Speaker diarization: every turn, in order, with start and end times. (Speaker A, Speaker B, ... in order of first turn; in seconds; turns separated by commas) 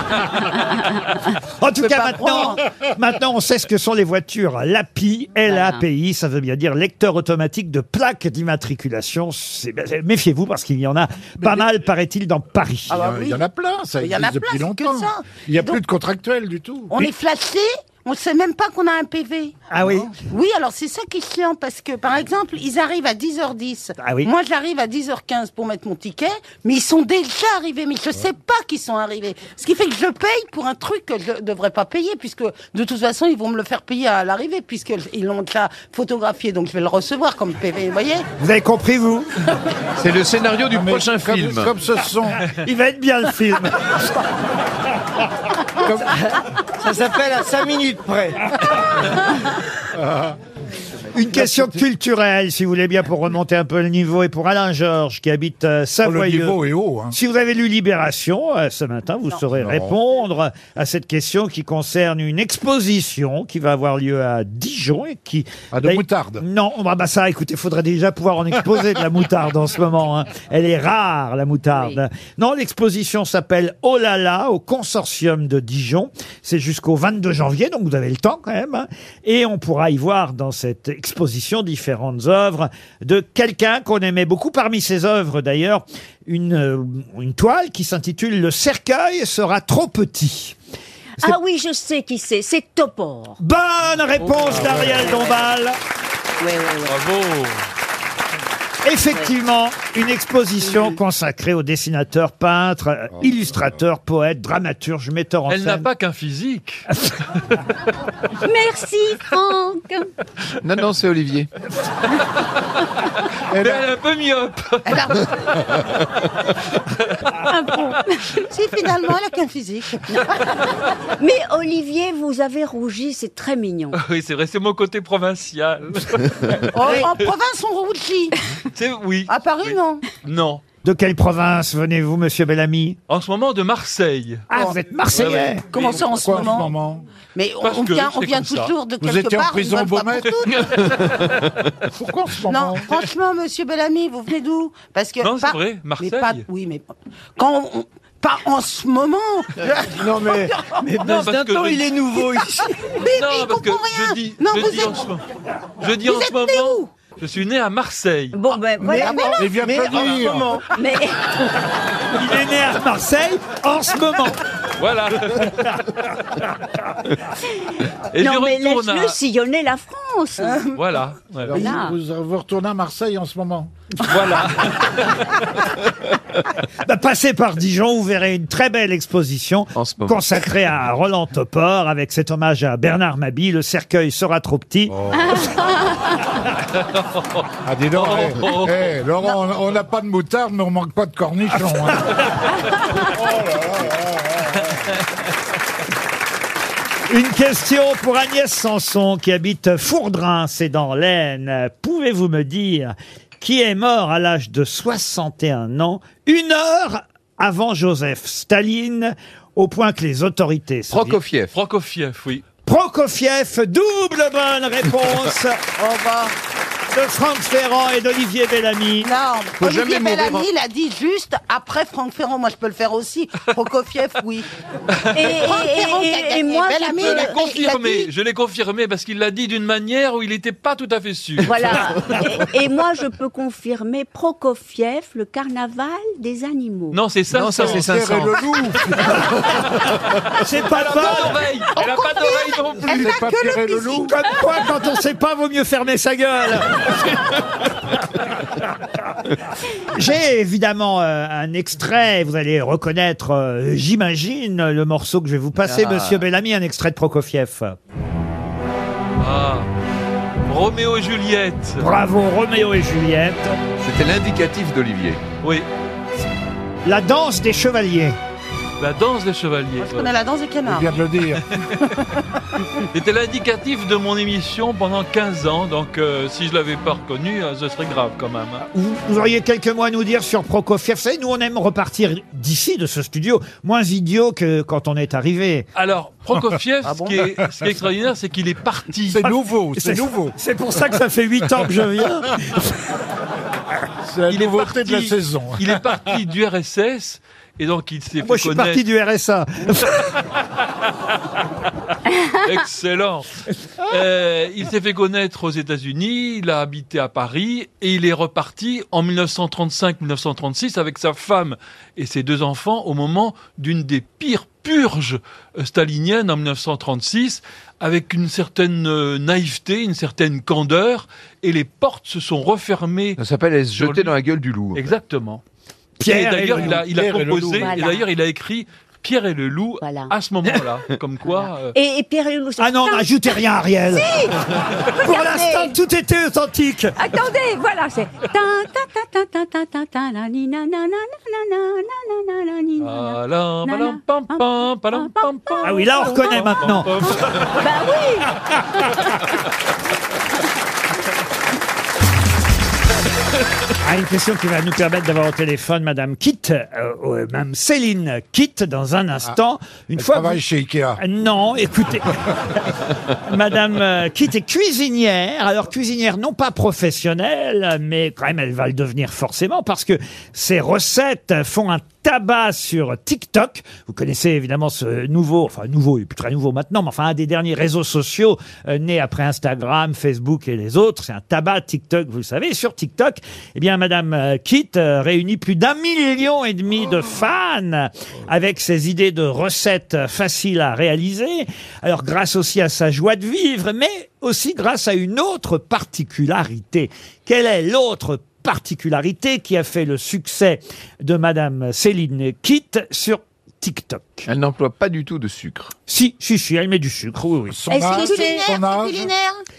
Speaker A: 1.6-13.0, Speaker B: 1.8-2.6, Speaker C: 5.5-5.8, Speaker D: 11.4-11.7, Speaker B: 12.9-13.4, Speaker D: 12.9-17.1, Speaker B: 14.0-15.8, Speaker B: 16.9-38.2, Speaker A: 19.7-20.1, Speaker A: 24.0-24.3, Speaker A: 38.4-39.3, Speaker E: 40.0-41.7, Speaker D: 40.7-42.5, Speaker A: 42.6-44.0, Speaker D: 45.8-46.2, Speaker F: 46.1-48.5, Speaker D: 49.9-50.4, Speaker A: 51.1-56.6, Speaker D: 56.0-57.1, Speaker A: 57.1-90.5, Speaker D: 59.5-59.9, Speaker D: 65.7-66.4, Speaker C: 71.7-72.0, Speaker C: 91.2-93.4, Speaker A: 93.4-95.8, Speaker D: 94.5-95.1, Speaker C: 94.5-95.5, Speaker C: 96.4-97.0, Speaker G: 96.9-97.6, Speaker A: 98.8-105.9, Speaker G: 105.5-106.9, Speaker C: 108.4-110.1, Speaker E: 110.6-111.5, Speaker D: 113.5-113.9, Speaker G: 113.5-115.2, Speaker B: 114.9-115.3, Speaker C: 117.5-118.4, Speaker B: 118.5-120.5, Speaker C: 121.0-124.0, Speaker G: 123.9-127.0, Speaker B: 126.7-128.3, Speaker G: 128.7-130.6, Speaker B: 129.3-130.0, Speaker A: 130.8-133.0, Speaker G: 133.1-134.5, Speaker A: 134.5-135.7, Speaker G: 135.1-136.0, Speaker D: 135.2-137.0, Speaker B: 135.7-136.7, Speaker B: 137.3-140.7, Speaker G: 137.6-138.7, Speaker D: 139.0-140.4, Speaker D: 142.0-143.0, Speaker B: 142.5-150.8, Speaker G: 145.2-146.4, Speaker F: 149.7-152.8, Speaker G: 151.0-151.9, Speaker B: 152.2-155.0, Speaker G: 153.0-155.2, Speaker G: 155.8-158.4, Speaker B: 156.0-156.9, Speaker C: 158.3-159.4, Speaker F: 158.8-160.6, Speaker D: 159.0-160.6, Speaker B: 159.0-159.5, Speaker C: 160.7-161.3, Speaker A: 162.1-164.4, Speaker G: 164.8-165.8, Speaker A: 165.4-165.7, Speaker G: 168.1-169.2, Speaker C: 168.2-170.7, Speaker B: 170.4-170.8, Speaker G: 170.7-171.6, Speaker D: 171.5-173.7, Speaker C: 171.5-172.0, Speaker G: 174.0-175.4, Speaker A: 176.8-184.9, Speaker E: 179.8-180.2, Speaker D: 184.9-185.6, Speaker D: 187.6-192.3, Speaker G: 187.9-188.9, Speaker D: 192.9-194.8, Speaker A: 197.1-211.2, Speaker E: 210.9-211.5, Speaker G: 211.5-212.4, Speaker A: 212.6-215.6, Speaker B: 215.8-216.3, Speaker A: 216.9-219.1, Speaker B: 219.0-224.5, Speaker E: 219.6-220.5, Speaker C: 225.1-227.4, Speaker B: 225.2-228.1, Speaker G: 227.0-231.8, Speaker C: 231.4-237.0, Speaker G: 236.9-237.9, Speaker E: 237.3-238.6, Speaker D: 237.6-239.2, Speaker A: 240.4-241.4, Speaker G: 240.6-243.2, Speaker B: 241.7-244.1, Speaker D: 242.9-244.1, Speaker A: 244.0-247.1, Speaker A: 249.9-257.8, Speaker E: 255.6-256.2, Speaker G: 259.2-259.7, Speaker G: 260.5-261.9, Speaker A: 261.8-263.6, Speaker E: 263.8-265.2, Speaker G: 265.4-265.7, Speaker A: 266.9-268.2, Speaker G: 268.8-270.1, Speaker B: 269.8-271.0, Speaker D: 270.6-271.6, Speaker G: 271.5-271.8, Speaker G: 272.9-278.6, Speaker A: 278.7-285.6, Speaker G: 285.8-289.4, Speaker D: 289.1-290.4, Speaker A: 289.8-292.9, Speaker D: 294.1-295.8, Speaker G: 294.3-298.8, Speaker A: 298.2-300.1, Speaker G: 302.3-303.3, Speaker G: 303.9-323.2, Speaker E: 323.2-324.8, Speaker G: 323.8-324.1, Speaker G: 324.7-325.4, Speaker A: 326.0-326.8, Speaker G: 326.0-331.7, Speaker D: 326.6-327.7, Speaker C: 327.6-328.1, Speaker C: 329.8-330.1, Speaker C: 331.2-333.3, Speaker A: 332.6-334.1, Speaker C: 333.9-335.7, Speaker A: 334.9-337.0, Speaker C: 337.0-346.5, Speaker G: 342.8-347.6, Speaker A: 345.6-347.2, Speaker C: 347.0-349.2, Speaker A: 353.8-360.4, Speaker D: 360.0-361.0, Speaker A: 361.0-362.2, Speaker A: 363.2-404.3, Speaker E: 404.2-405.7, Speaker A: 405.9-407.6, Speaker D: 407.5-409.1, Speaker B: 407.7-409.4, Speaker C: 407.7-408.5